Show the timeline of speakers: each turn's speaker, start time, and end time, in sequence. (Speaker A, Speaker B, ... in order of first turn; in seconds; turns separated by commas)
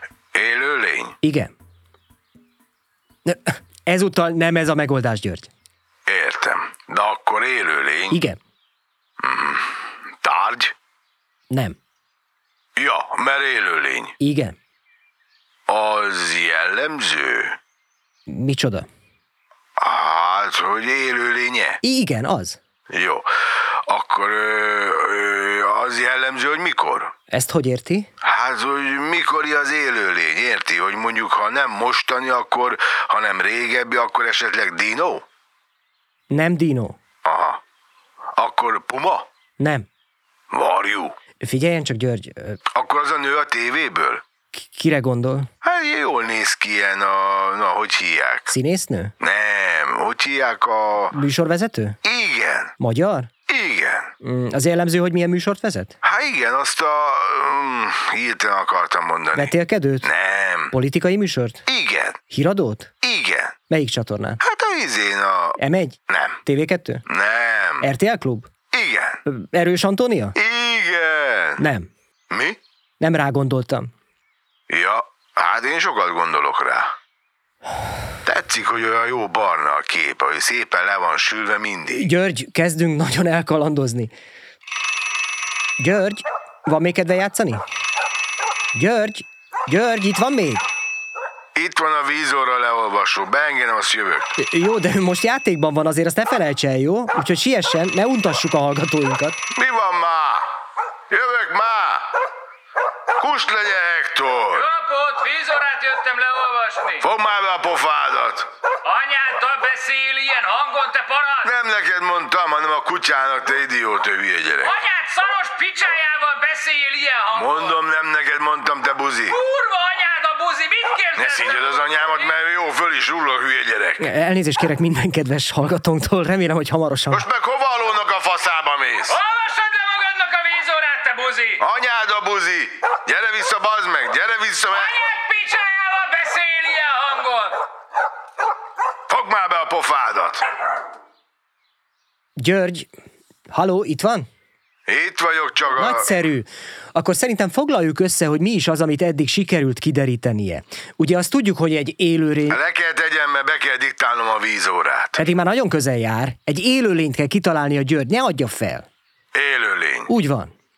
Speaker A: 0.3-1.2, Speaker B: 1.2-1.5, Speaker B: 3.2-5.5, Speaker A: 6.1-8.2, Speaker B: 8.1-8.4, Speaker A: 9.2-10.7, Speaker B: 11.5-11.8, Speaker A: 12.8-14.1, Speaker B: 14.2-14.6, Speaker A: 15.7-17.6, Speaker B: 18.3-18.9, Speaker A: 19.8-21.8, Speaker B: 21.8-22.6, Speaker A: 22.9-23.3, Speaker A: 23.9-27.1, Speaker B: 27.3-28.1, Speaker A: 28.2-35.2, Speaker B: 36.3-37.0, Speaker A: 37.2-37.6, Speaker A: 38.4-39.3, Speaker B: 39.6-39.9, Speaker A: 40.5-41.1, Speaker B: 41.4-42.6, Speaker A: 42.7-44.2, Speaker B: 44.5-45.5, Speaker A: 45.6-48.5, Speaker B: 48.5-49.1, Speaker A: 49.2-51.1, Speaker B: 51.1-52.0, Speaker A: 52.0-52.7, Speaker B: 52.8-53.3, Speaker A: 53.5-54.1, Speaker B: 54.2-56.0, Speaker A: 56.0-59.5, Speaker B: 59.3-60.1, Speaker A: 60.0-60.7, Speaker B: 60.7-61.6, Speaker A: 61.7-62.2, Speaker B: 62.3-62.9, Speaker A: 63.0-63.6, Speaker B: 63.7-64.4, Speaker A: 64.4-65.6, Speaker B: 65.6-67.0, Speaker A: 66.1-66.4, Speaker A: 67.1-67.8, Speaker B: 67.8-68.5, Speaker A: 68.7-69.2, Speaker B: 69.3-70.3, Speaker A: 70.3-71.6, Speaker B: 71.6-71.9, Speaker A: 72.3-72.6, Speaker B: 73.0-73.9, Speaker A: 74.7-76.9, Speaker A: 78.2-82.1, Speaker B: 82.0-84.1, Speaker B: 85.8-87.6, Speaker B: 88.8-90.6, Speaker A: 91.5-94.3, Speaker B: 94.4-99.4, Speaker A: 99.5-100.5, Speaker A: 101.1-102.1, Speaker A: 103.2-104.7, Speaker C: 104.5-107.0, Speaker A: 107.0-108.5, Speaker C: 108.8-111.5, Speaker A: 111.4-114.7, Speaker C: 114.6-117.8, Speaker A: 117.3-119.3, Speaker C: 119.3-122.3, Speaker A: 121.2-124.0, Speaker B: 124.0-127.3, Speaker A: 127.1-129.2, Speaker C: 129.1-131.6, Speaker A: 131.6-134.9, Speaker C: 134.7-137.6, Speaker A: 139.1-140.4, Speaker B: 142.4-142.9, Speaker B: 143.5-144.3, Speaker A: 144.9-146.0, Speaker B: 145.8-152.6, Speaker A: 152.5-155.2, Speaker B: 155.2-158.9, Speaker A: 159.3-160.1, Speaker B: 160.1-160.5